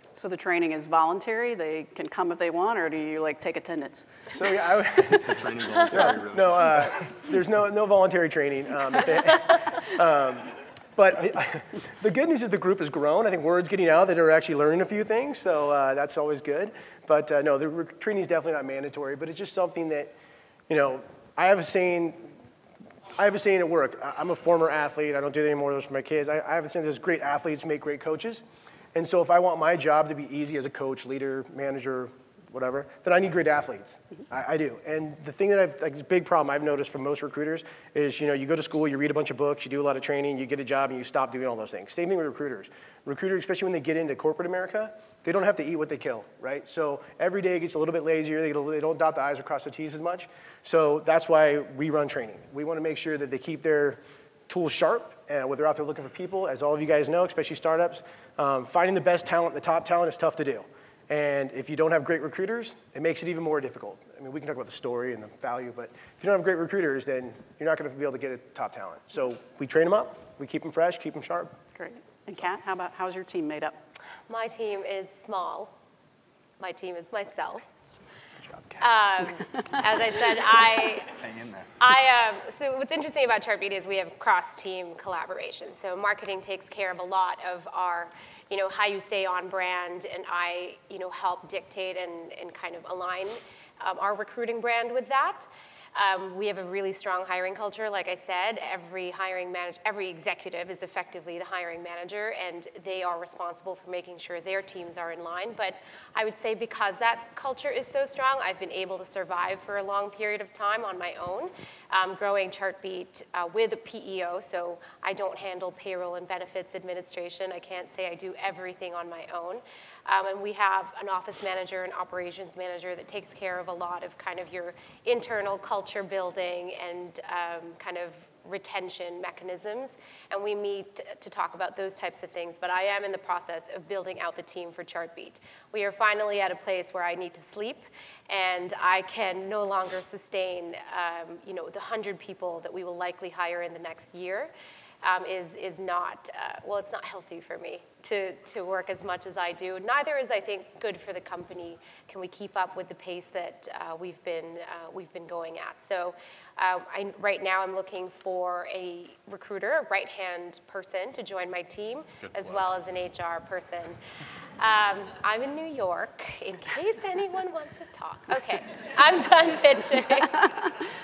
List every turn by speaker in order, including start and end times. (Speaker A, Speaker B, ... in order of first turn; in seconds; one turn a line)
Speaker A: 0.1-4.1
Speaker B: 4.3-20.1
Speaker C: 5.0-7.1
Speaker B: 20.7-22.4
Speaker B: 23.1-71.5
Speaker A: 71.8-73.8
Speaker D: 74.3-75.7
Speaker D: 76.6-77.6
Speaker D: 78.8-81.1
Speaker C: 81.2-81.7
Speaker D: 81.8-144.5
Speaker D: 145.0-163.9
Speaker C: 162.2-162.6
Speaker D: 164.6-170.7